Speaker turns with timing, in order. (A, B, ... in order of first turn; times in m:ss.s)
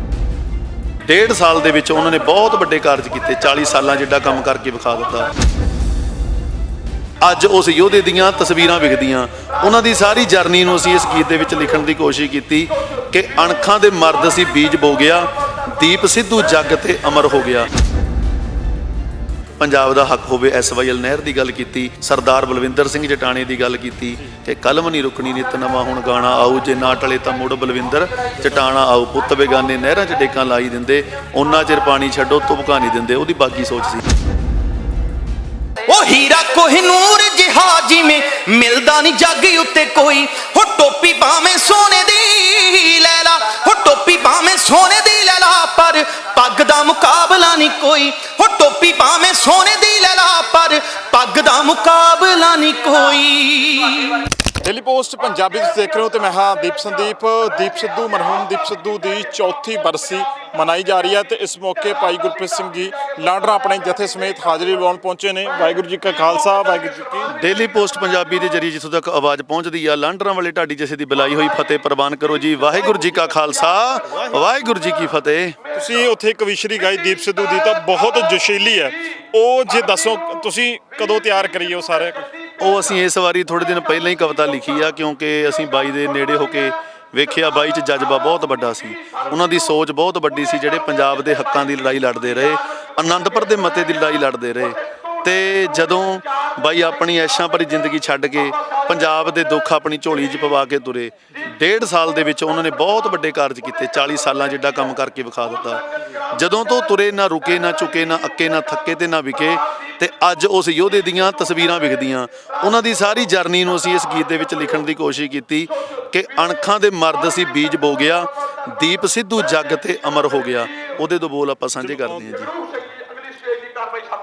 0:01.1-0:05.3 A
0:07.2-0:17.7 A
0:19.6-0:34.0 A
0:35.9-0:54.3 B
0:54.6-1:07.3 C
1:07.3-1:15.6 A
1:15.7-1:22.3 C
1:22.6-2:02.5 A
2:01.8-2:02.4 C